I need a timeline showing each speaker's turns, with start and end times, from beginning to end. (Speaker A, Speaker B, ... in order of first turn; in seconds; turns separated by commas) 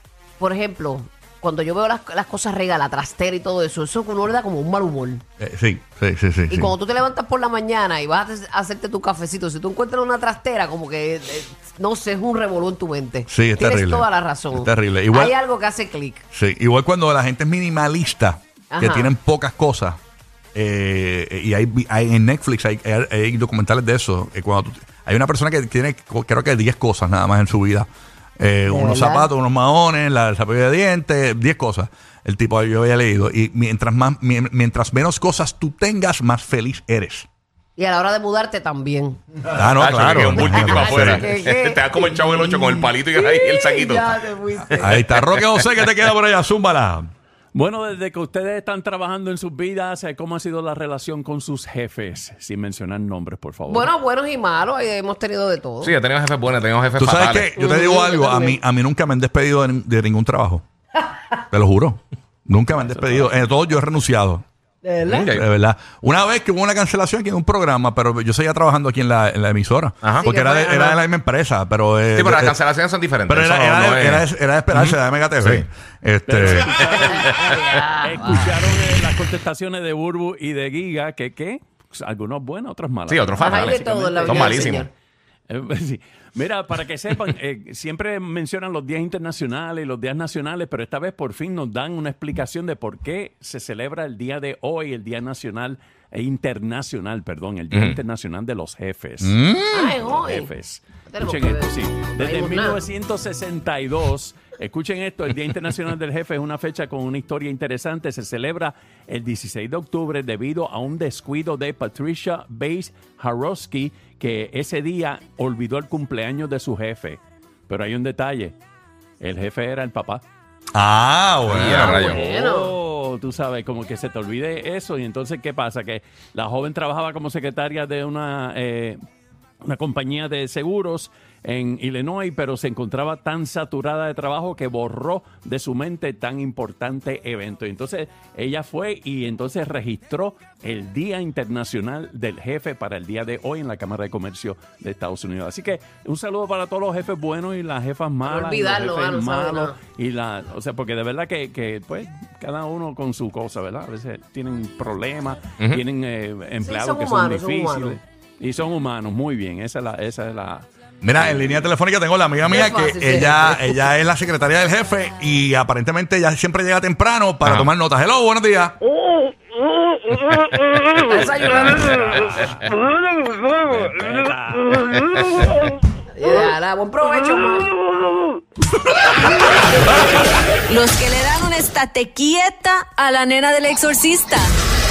Speaker A: 0.4-5.2, Speaker B: 5.4-6.7, Speaker A: 6.5-16.2, Speaker B: 13.3-15.3, Speaker B: 16.3-20.0, Speaker A: 18.7-19.1, Speaker B: 20.6-27.9, Speaker B: 28.4-37.3, Speaker A: 28.7-29.3, Speaker A: 37.8-39.2, Speaker B: 39.5-41.2, Speaker C: 39.6-44.1, Speaker A: 40.4-45.0, Speaker B: 44.8-47.1, Speaker D: 47.5-53.9, Speaker A: 53.7-56.0, Speaker C: 55.8-57.5, Speaker B: 57.0-60.6, Speaker A: 57.5-58.6, Speaker B: 61.5-64.4, Speaker D: 62.8-63.3, Speaker A: 64.8-65.3, Speaker C: 65.1-65.5, Speaker B: 65.2-72.6, Speaker A: 70.2-71.0, Speaker C: 72.1-75.7, Speaker B: 73.3-76.8, Speaker D: 76.3-84.8, Speaker A: 76.8-78.4, Speaker C: 83.1-84.9, Speaker A: 83.4-84.9, Speaker D: 85.5-118.6, Speaker C: 97.7-98.0, Speaker B: 99.2-99.9, Speaker A: 99.7-100.5, Speaker A: 101.1-102.8, Speaker D: 119.2-120.2, Speaker B: 120.7-122.0, Speaker C: 121.5-122.2, Speaker A: 121.7-122.8, Speaker D: 121.8-129.0, Speaker D: 129.6-160.7, Speaker A: 148.2-149.8, Speaker A: 156.6-158.0, Speaker B: 161.0-168.8, Speaker A: 162.4-163.8, Speaker C: 167.4-167.7, Speaker C: 170.2-171.0, Speaker A: 170.9-172.1, Speaker D: 171.1-175.1, Speaker C: 175.2-175.4, Speaker A: 176.2-177.7, Speaker E: 180.7-184.6